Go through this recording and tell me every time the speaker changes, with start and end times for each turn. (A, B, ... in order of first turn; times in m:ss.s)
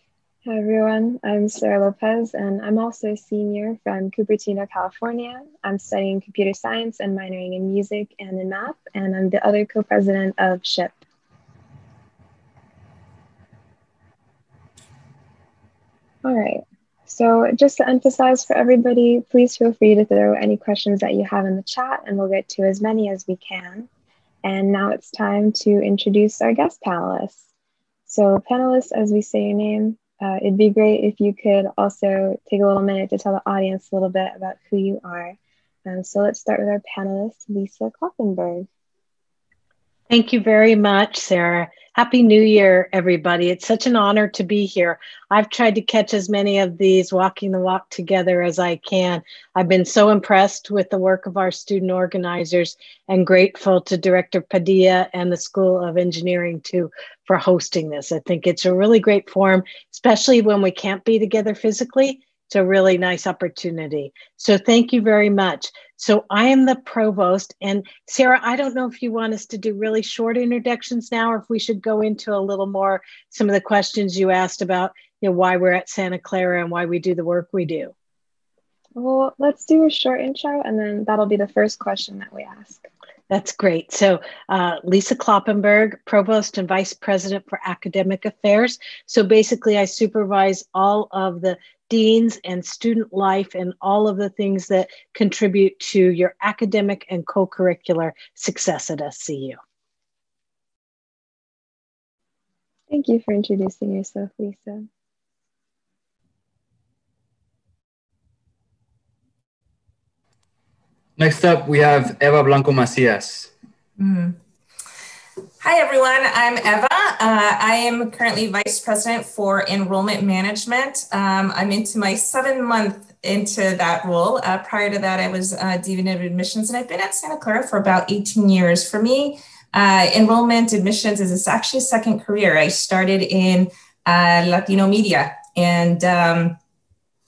0:00.4-0:11.0 A
0:16.2-0:23.9 A
0:24.4-0:27.4 A
0:28.1-0:38.7 A
0:40.1-1:17.9 B
1:19.0-1:22.9 A
1:23.3-1:39.6 B
1:42.9-1:44.9 A
1:51.2-1:53.5 C
1:54.0-1:54.4 D
1:55.6-2:16.6 D